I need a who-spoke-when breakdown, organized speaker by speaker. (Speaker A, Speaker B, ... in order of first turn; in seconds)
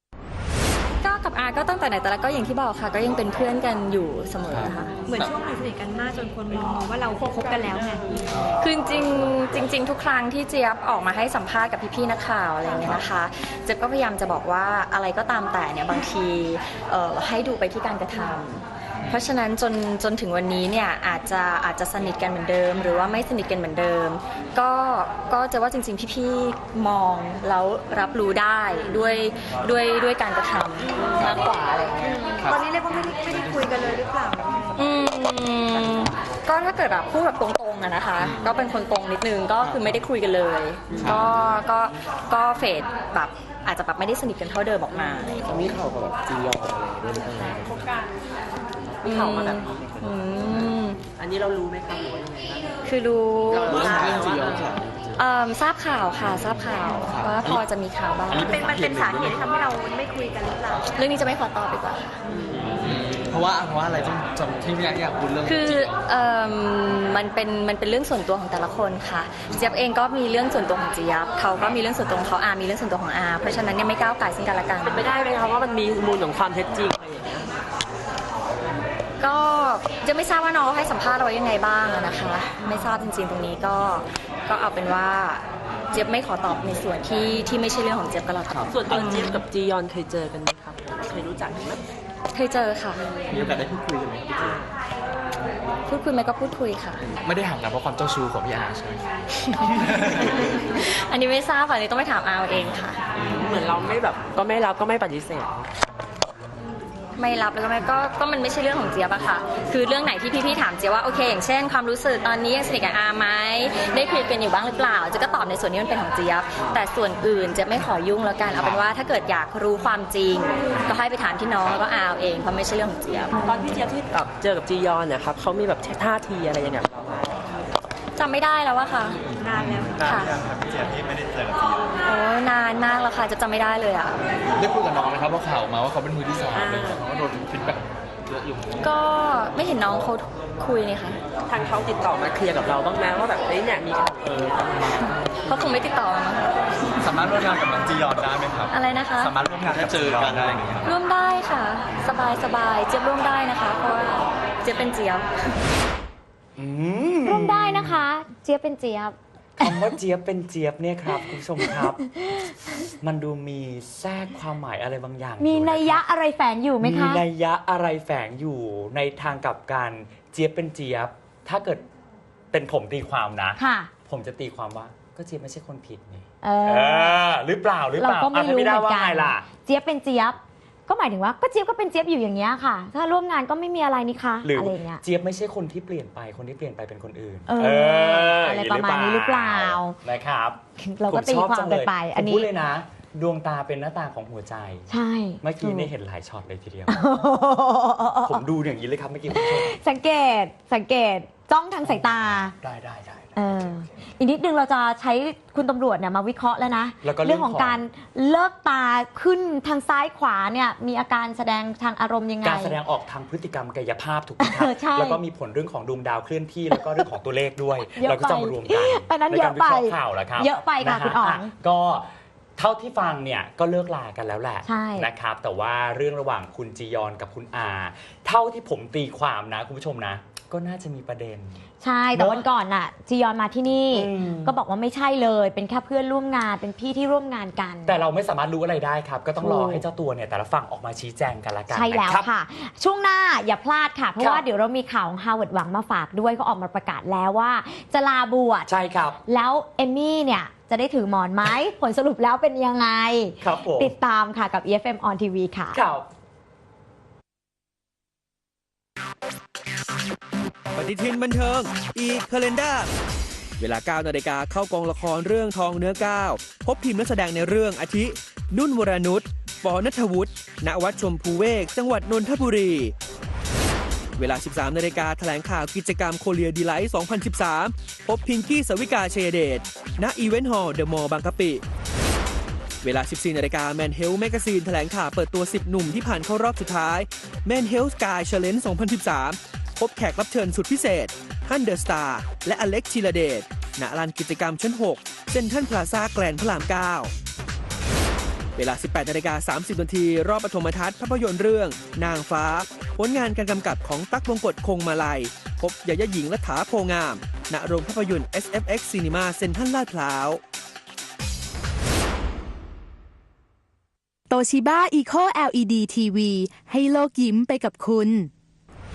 Speaker A: 1.0-5.0, 8.6-32.5, 34.8-45.5, 49.0-51.0, 52.8-54.2, 55.1-58.8, 60.9-62.1, 65.4-75.1, 79.2-89.4, 92.3-93.0, 95.9-97.0, 99.4-103.0, 107.2-123.3, 128.2-129.2, 129.9-130.4, 132.0-134.2, 138.8-141.2, 145.4-146.6, 148.7-149.3, 150.8-155.3
Speaker B: 4.5-5.2, 45.6-47.7, 53.7-55.1, 57.1-57.6, 58.3-59.4, 62.7-65.9, 93.3-94.4, 97.2-99.0, 129.5-131.8, 134.6-137.8, 147.0-150.9
Speaker C: 5.0-8.0, 32.0-34.8, 58.4-60.8, 129.4-130.0
Speaker D: 46.2-46.5, 47.4-47.7, 49.0-50.0, 51.2-52.7, 53.5-54.8, 62.3-62.8, 74.8-77.5, 88.7-91.8, 94.3-94.7, 103.2-105.5, 123.4-127.4, 136.5-137.1, 141.4-145.1
Speaker E: 156.6-158.0, 159.6-162.0, 163.0-166.0, 166.8-171.8, 172.5-179.5, 184.4-194.9, 195.4-196.9, 198.2-199.7, 201.8-203.9, 207.0-207.8, 212.4-231.6, 232.1-232.4, 233.9-234.5, 237.8-242.3, 244.2-244.4, 248.7-249.2, 253.4-253.9, 255.7-256.1
Speaker F: 157.2-159.8, 161.6-162.5, 165.4-167.2, 173.6-173.9, 176.4-177.2, 177.9-185.0, 187.5-190.0, 190.8-192.5, 194.9-195.9, 196.9-198.4, 199.3-202.5, 203.3-212.8, 214.4-215.2, 217.9-221.5, 224.6-225.1, 231.8-238.0, 239.4-239.8, 241.7-248.7, 249.2-255.8
Speaker G: 260.7-262.9, 263.6-272.9, 274.2-281.6, 282.8-297.1, 298.6-310.4
Speaker H: 314.3-318.3